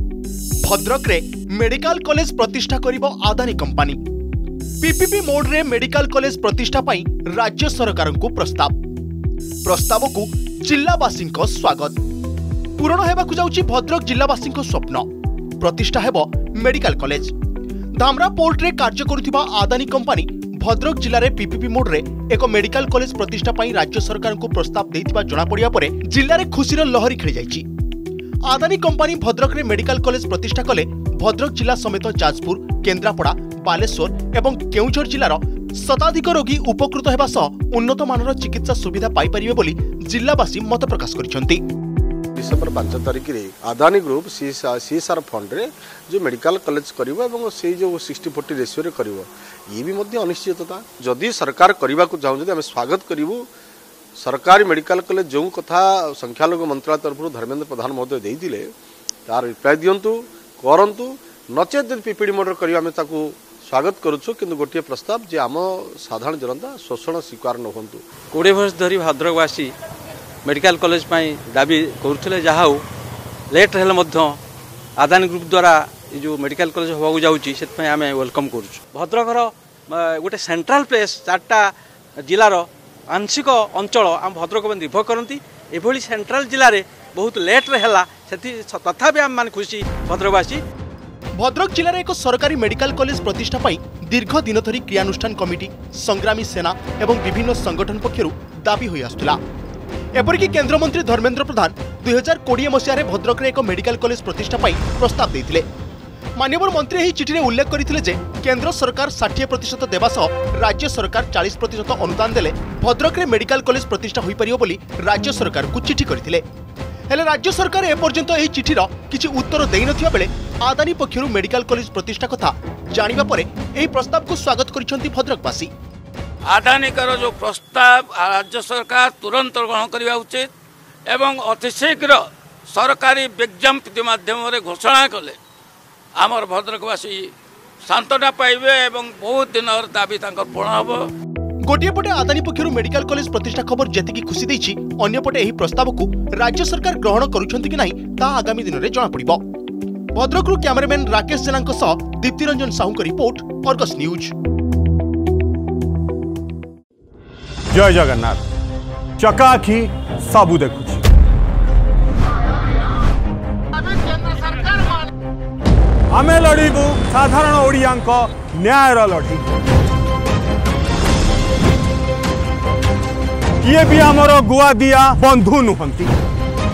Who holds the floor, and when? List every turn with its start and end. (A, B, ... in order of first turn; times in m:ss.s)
0:00.6-0:04.0 A
0:04.8-0:08.7 A
0:09.6-0:12.0 A
0:12.8-0:17.3 A
0:17.9-0:27.6 A
0:28.5-0:41.6 A
0:42.3-0:53.5 B
0:54.2-0:58.7 B
0:59.2-1:08.0 B
1:08.3-1:09.7 C
1:10.4-1:12.8 C
1:13.5-1:14.4 C
1:15.0-1:30.6 C
1:31.4-1:39.4 A
1:40.1-1:45.7 A
1:46.4-1:56.4 A
1:57.1-2:05.7 A
2:06.5-2:10.5 D
2:11.1-2:15.4 D
2:16.2-2:17.3 D
2:17.8-2:21.1 D
2:21.6-2:29.4 A
2:30.1-2:34.3 A
2:37.7-2:38.4 E
2:39.2-2:41.0 E
2:46.1-2:49.4 E
2:53.6-2:56.1 E